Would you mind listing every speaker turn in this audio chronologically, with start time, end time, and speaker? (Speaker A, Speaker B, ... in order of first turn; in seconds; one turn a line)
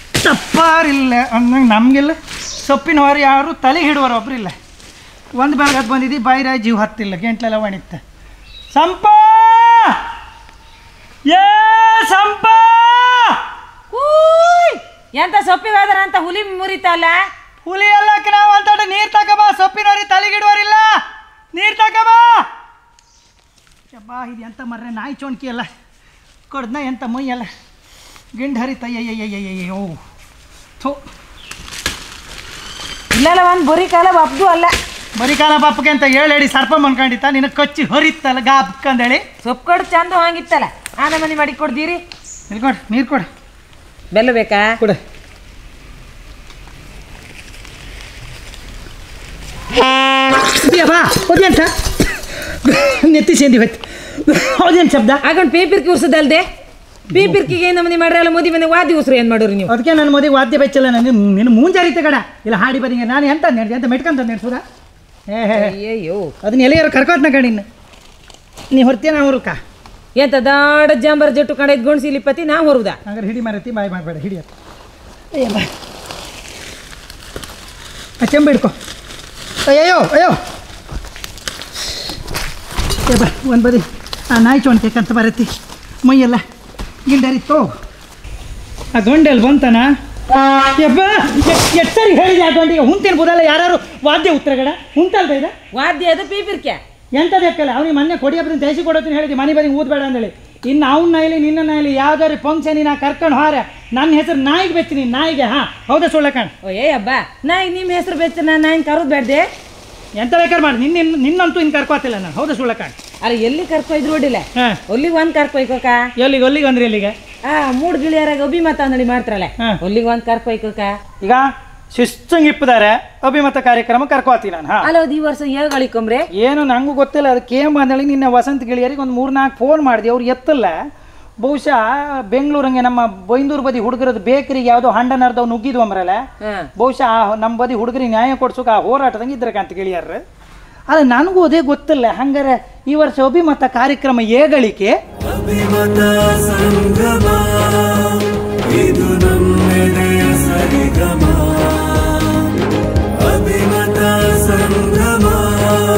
Speaker A: 0.2-4.5
Speaker A: 5.3-8.0
Speaker A: 8.7-10.0
Speaker A: 11.3-13.4
Speaker B: 13.9-17.2
Speaker A: 17.6-21.0
Speaker A: 21.5-22.5
Speaker A: 23.9-25.7
Speaker A: 26.5-27.5
Speaker A: 28.3-30.0
Speaker B: 33.1-34.7
Speaker A: 35.1-39.2
Speaker B: 39.4-42.0
Speaker A: 42.5-43.2
Speaker B: 44.1-44.8
Speaker A: 50.5-51.7
Speaker A: 52.5-55.2
Speaker B: 55.2-56.5
Speaker B: 57.1-59.7
Speaker A: 57.1-57.5
Speaker A: 59.7-64.6
Speaker A: 65.3-65.7
Speaker B: 65.5-66.3
Speaker A: 66.4-67.6
Speaker A: 68.7-69.6
Speaker B: 70.2-73.0
Speaker A: 73.0-74.5
Speaker A: 75.3-75.7
Speaker A: 78.2-78.7
Speaker A: 79.7-80.4
Speaker A: 83.0-85.5
Speaker A: 86.0-86.4
Speaker A: 87.0-87.7
Speaker A: 88.9-89.9
Speaker A: 90.8-95.5
Speaker B: 95.7-96.8
Speaker A: 97.1-106.5
Speaker B: 106.6-109.5
Speaker A: 110.2-112.9
Speaker B: 113.2-116.1
Speaker A: 116.2-117.1
Speaker B: 117.4-121.0
Speaker A: 121.2-124.9
Speaker B: 124.8-126.3
Speaker A: 126.3-130.8
Speaker A: 131.4-136.2
Speaker B: 136.4-136.7
Speaker A: 136.8-140.2
Speaker A: 140.9-147.7
Speaker A: 148.6-151.4
Speaker A: 154.5-155.3